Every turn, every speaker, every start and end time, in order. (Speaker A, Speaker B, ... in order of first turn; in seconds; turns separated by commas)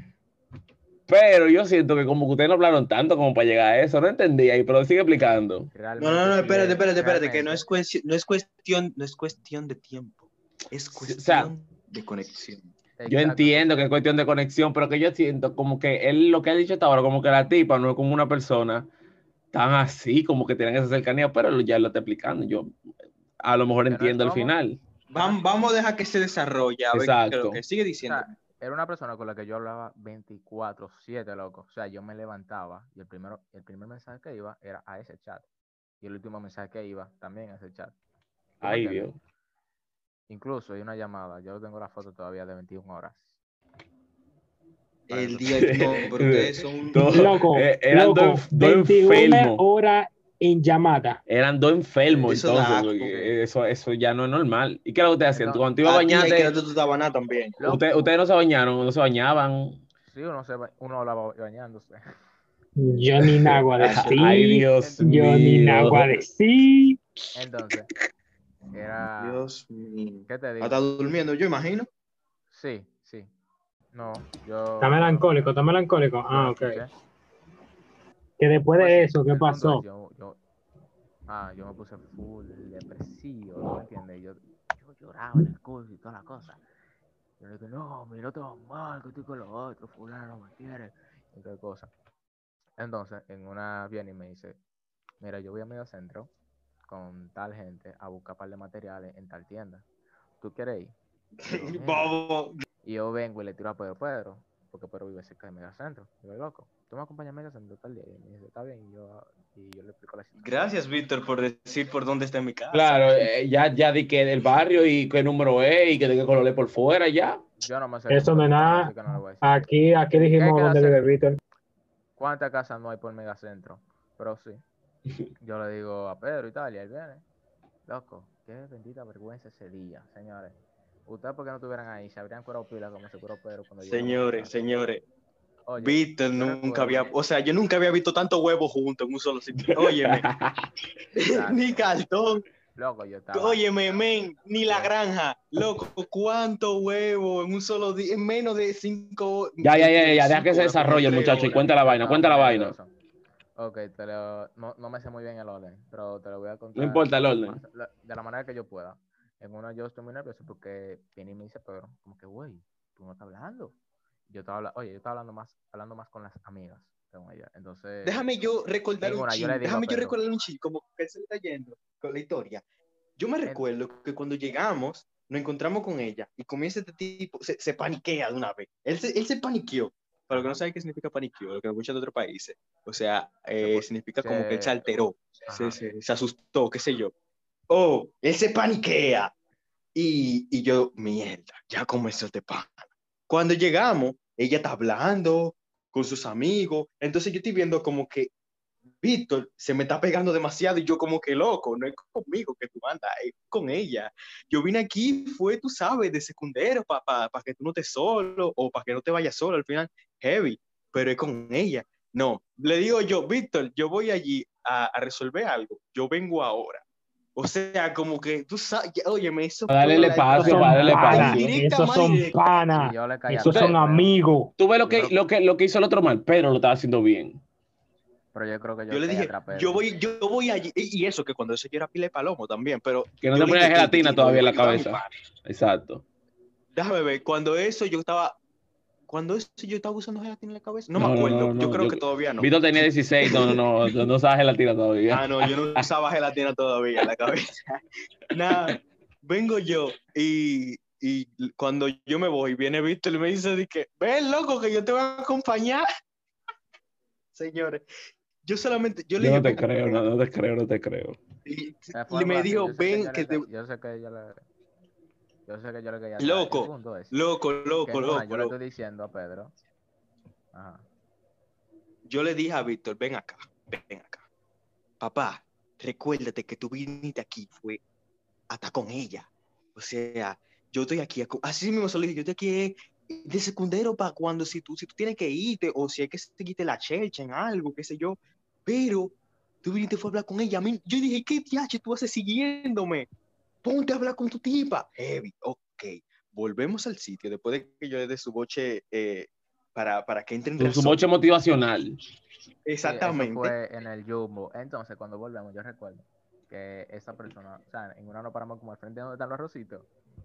Speaker A: 1.1-5.7, Speaker B: 5.7-7.6, Speaker C: 6.0-12.7, Speaker A: 10.9-11.5, Speaker B: 13.0-13.9, Speaker A: 13.1-18.9, Speaker A: 19.5-22.7, Speaker A: 23.4-24.8, Speaker B: 23.9-24.6, Speaker C: 25.1-28.4, Speaker B: 25.1-25.4, Speaker A: 26.9-27.6, Speaker B: 28.1-35.5, Speaker B: 36.0-38.0, Speaker A: 38.6-39.2, Speaker B: 38.6-39.1, Speaker B: 40.3-43.4, Speaker C: 45.1-47.0, Speaker B: 45.1-45.9, Speaker A: 45.5-49.6, Speaker D: 47.0-51.2, Speaker A: 51.3-56.5, Speaker B: 52.1-52.4, Speaker C: 52.2-52.9, Speaker B: 52.9-53.4, Speaker B: 55.3-55.6, Speaker C: 55.8-57.6, Speaker B: 57.6-58.1, Speaker A: 57.6-59.8, Speaker B: 60.0-62.0, Speaker D: 62.8-67.0, Speaker A: 63.4-66.2, Speaker C: 63.8-64.2, Speaker B: 67.3-67.9, Speaker B: 68.7-69.4, Speaker C: 69.2-71.9, Speaker B: 70.3-70.8, Speaker B: 72.5-73.3, Speaker B: 73.9-75.5, Speaker D: 74.8-76.8, Speaker B: 76.3-76.9, Speaker D: 78.4-79.8, Speaker B: 78.8-80.4, Speaker B: 81.3-86.6, Speaker B: 87.4-91.9, Speaker B: 92.8-94.6, Speaker B: 95.2-96.3, Speaker B: 96.9-99.8, Speaker B: 100.4-101.0, Speaker C: 101.4-102.6, Speaker B: 101.5-102.1, Speaker B: 102.8-110.7, Speaker C: 110.4-113.0, Speaker A: 112.7-117.4, Speaker B: 117.6-121.1, Speaker D: 118.1-121.4, Speaker B: 122.2-124.6, Speaker B: 125.4-127.2, Speaker B: 127.9-134.7, Speaker C: 133.8-135.0, Speaker B: 135.7-137.1, Speaker C: 135.8-140.2, Speaker A: 139.6-140.7, Speaker C: 141.2-142.4, Speaker B: 141.2-141.6, Speaker B: 142.8-143.6, Speaker C: 143.3-151.6, Speaker B: 144.7-144.9, Speaker A: 149.6-152.8, Speaker B: 150.7-152.9, Speaker B: 153.6-163.8, Speaker A: 156.8-157.6, Speaker B: 164.3-168.2, Speaker C: 168.1-172.6, Speaker B: 169.0-170.2, Speaker C: 173.2-187.1, Speaker B: 180.3-180.6, Speaker B: 183.6-184.8, Speaker B: 185.5-185.8, Speaker C: 187.7-189.3, Speaker C: 189.9-198.3, Speaker C: 199.0-216.8, Speaker C: 217.4-222.3, Speaker A: 219.7-221.5, Speaker D: 219.9-224.5, Speaker B: 222.7-224.1, Speaker A: 223.4-223.8, Speaker A: 224.6-227.4, Speaker B: 224.8-225.1, Speaker B: 228.3-229.8, Speaker C: 228.9-235.1, Speaker A: 233.2-236.0, Speaker C: 236.7-238.4, Speaker C: 239.1-242.5, Speaker A: 240.9-245.9, Speaker C: 243.2-243.6, Speaker C: 245.1-255.9, Speaker C: 257.3-257.8, Speaker C: 258.4-260.0, Speaker A: 259.2-261.2, Speaker C: 261.5-263.5, Speaker B: 261.9-264.4, Speaker B: 265.5-267.1, Speaker C: 266.2-268.5, Speaker B: 267.8-269.5, Speaker B: 270.5-270.9, Speaker C: 272.1-274.2, Speaker C: 275.0-277.8, Speaker C: 278.5-293.1, Speaker C: 293.6-301.0, Speaker A: 300.6-302.0, Speaker C: 302.6-303.5, Speaker B: 302.8-309.9